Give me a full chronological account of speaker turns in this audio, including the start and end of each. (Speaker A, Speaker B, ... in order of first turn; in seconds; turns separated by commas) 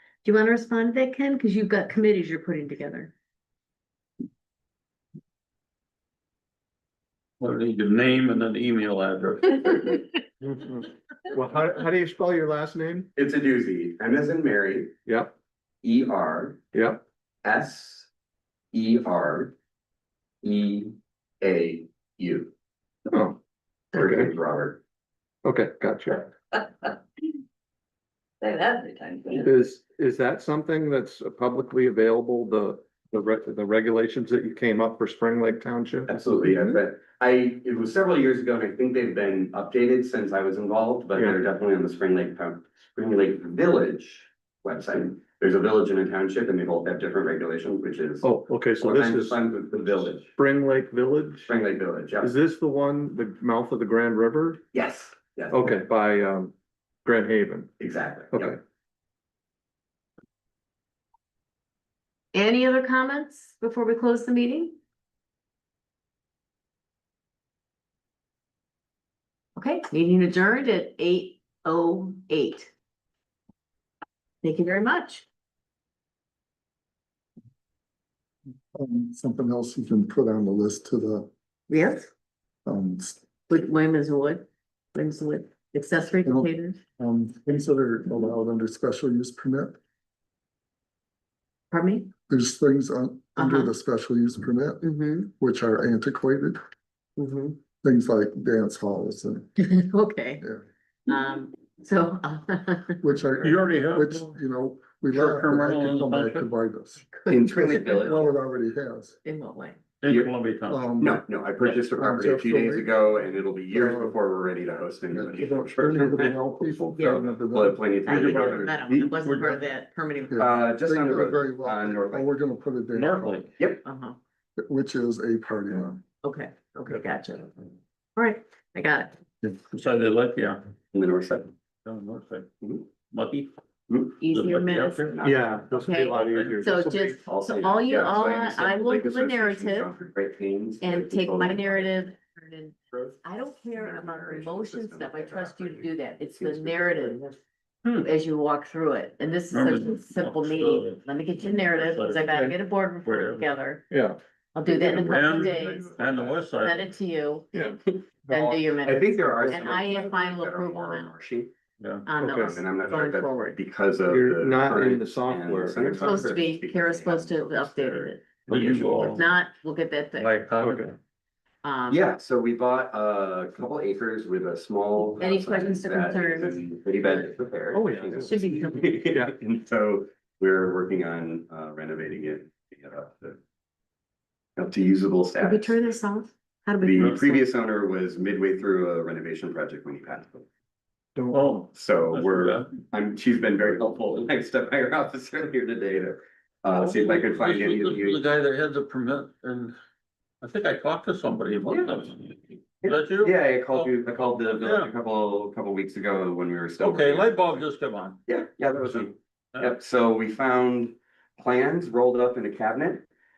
Speaker A: 0.2-3.1, Speaker B: 7.4-10.1, Speaker C: 10.4-13.1, Speaker D: 13.2-14.9, Speaker C: 15.1-15.3, Speaker D: 15.8-16.6, Speaker C: 16.7-17.0, Speaker D: 17.4-18.1, Speaker D: 18.7-19.6, Speaker D: 20.4-22.5, Speaker C: 23.1-23.4, Speaker C: 23.9-24.3, Speaker D: 23.9-24.8, Speaker C: 25.4-26.3, Speaker C: 29.4-36.8, Speaker D: 36.1-50.3, Speaker C: 48.2-49.4, Speaker C: 50.4-51.5, Speaker D: 51.5-52.3, Speaker C: 52.2-54.6, Speaker D: 54.7-55.7, Speaker C: 55.5-56.5, Speaker C: 57.0-57.7, Speaker D: 57.8-58.6, Speaker C: 58.3-58.6, Speaker A: 62.3-64.8, Speaker A: 69.6-72.7, Speaker A: 74.4-75.3, Speaker E: 78.7-81.3, Speaker A: 81.7-82.1, Speaker E: 82.7-83.2, Speaker A: 83.5-86.8, Speaker E: 86.2-89.8, Speaker A: 91.7-92.1, Speaker E: 92.3-96.6, Speaker A: 93.4-93.7, Speaker A: 94.8-95.3, Speaker A: 97.2-97.6, Speaker E: 97.8-99.5, Speaker A: 99.6-100.4, Speaker A: 101.1-103.0, Speaker E: 103.0-109.2, Speaker B: 103.4-104.3, Speaker B: 105.1-106.5, Speaker A: 107.2-108.2, Speaker D: 107.3-108.2, Speaker A: 109.2-109.8, Speaker B: 110.0-110.8, Speaker D: 110.1-110.3, Speaker E: 110.7-112.9, Speaker D: 111.0-116.8, Speaker E: 113.7-114.2, Speaker E: 115.1-117.8, Speaker A: 117.0-117.2, Speaker D: 117.4-118.8, Speaker A: 118.1-120.5, Speaker B: 118.1-119.7, Speaker E: 120.3-123.5, Speaker D: 120.4-122.3, Speaker B: 122.9-123.5, Speaker A: 123.8-124.2, Speaker E: 124.6-126.0, Speaker A: 126.2-127.6, Speaker A: 128.2-129.2, Speaker B: 129.7-130.6, Speaker D: 130.9-131.5, Speaker B: 131.8-132.5, Speaker D: 132.6-132.9, Speaker B: 133.1-133.5, Speaker D: 133.9-134.2, Speaker A: 134.2-139.9, Speaker B: 134.3-135.2, Speaker D: 134.9-135.7, Speaker C: 135.2-137.2, Speaker B: 136.3-136.8, Speaker D: 137.2-142.0, Speaker A: 140.8-147.2, Speaker D: 142.9-143.2, Speaker D: 143.7-147.4, Speaker A: 148.0-153.9, Speaker B: 149.5-151.0, Speaker B: 151.6-152.5, Speaker B: 153.1-153.5, Speaker C: 153.9-154.2, Speaker A: 154.6-155.9, Speaker D: 154.7-156.4, Speaker B: 154.8-156.9, Speaker A: 156.6-157.5, Speaker C: 157.5-158.6, Speaker A: 158.3-161.2, Speaker D: 158.8-161.5, Speaker C: 159.4-159.9, Speaker B: 161.8-162.1, Speaker A: 162.1-162.7, Speaker C: 162.2-163.5, Speaker D: 162.4-169.2, Speaker C: 164.1-166.4, Speaker A: 166.0-170.4, Speaker B: 168.5-169.3, Speaker B: 170.2-170.9, Speaker C: 170.6-170.9, Speaker A: 171.6-172.0, Speaker D: 171.9-183.4, Speaker A: 175.2-177.3, Speaker C: 177.7-178.4, Speaker A: 178.2-179.0, Speaker D: 184.6-186.0, Speaker A: 185.4-187.4, Speaker D: 186.8-190.5, Speaker C: 191.2-191.5, Speaker B: 191.3-192.7, Speaker D: 191.7-198.2, Speaker B: 196.7-199.8, Speaker B: 200.4-203.9, Speaker D: 201.7-202.1, Speaker D: 202.8-207.7, Speaker B: 204.6-204.9, Speaker B: 206.8-208.2, Speaker D: 208.3-213.1